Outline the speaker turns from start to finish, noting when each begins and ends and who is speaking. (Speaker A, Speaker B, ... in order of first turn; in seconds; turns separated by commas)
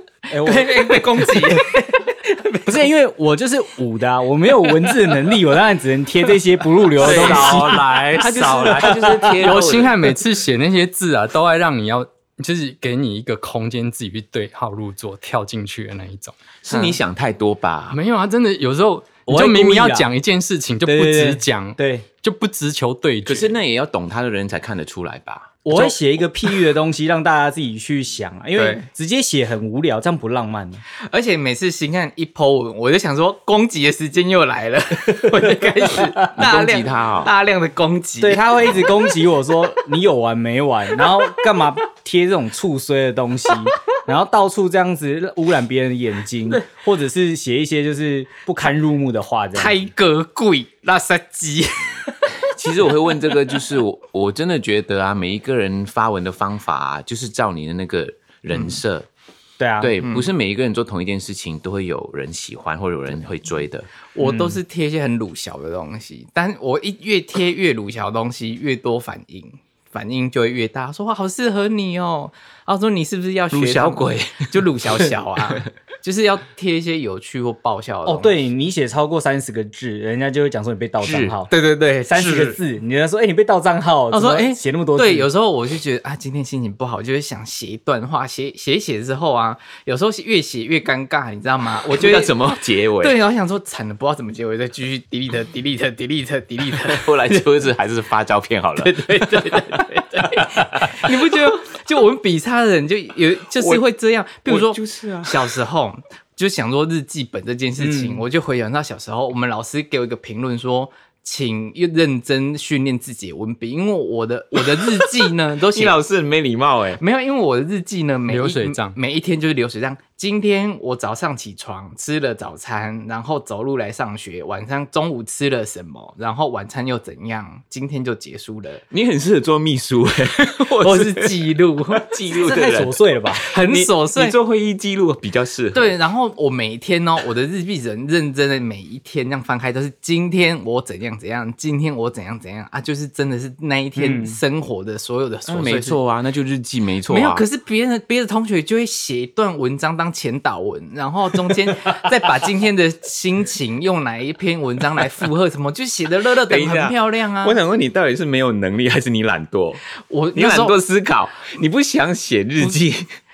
Speaker A: 0.3-1.8, Speaker B: 0.4-2.8, Speaker A: 2.6-9.7, Speaker C: 7.0-16.4, Speaker D: 7.0-10.0, Speaker D: 16.6-18.0, Speaker C: 17.9-23.6, Speaker A: 19.3-20.1, Speaker A: 20.9-22.1, Speaker D: 23.3-25.6, Speaker A: 25.6-30.8, Speaker B: 28.6-28.9, Speaker B: 31.0-38.8, Speaker D: 36.4-37.3, Speaker A: 38.2-49.8, Speaker B: 49.5-52.3, Speaker D: 52.5-59.1, Speaker A: 59.6-60.0, Speaker D: 59.8-63.9, Speaker B: 60.0-60.3, Speaker B: 64.2-78.4, Speaker A: 64.2-64.6, Speaker D: 73.5-75.6, Speaker A: 78.0-81.5, Speaker D: 81.0-81.4, Speaker B: 81.5-82.6, Speaker A: 82.1-85.3, Speaker B: 84.1-97.5, Speaker D: 91.9-93.2, Speaker D: 96.8-99.8, Speaker B: 98.8-116.0, Speaker D: 100.4-101.1, Speaker D: 103.6-103.8, Speaker D: 104.5-105.4, Speaker A: 107.8-108.2, Speaker D: 114.6-114.8, Speaker D: 115.7-117.0, Speaker B: 117.0-128.8, Speaker C: 118.3-119.0, Speaker D: 128.9-136.0, Speaker B: 130.6-132.1, Speaker A: 132.3-133.5, Speaker B: 133.4-134.3, Speaker B: 135.7-146.0, Speaker A: 144.0-144.4, Speaker D: 145.5-147.4, Speaker B: 147.1-157.6, Speaker D: 156.5-159.8, Speaker B: 160.1-160.8, Speaker D: 160.3-163.1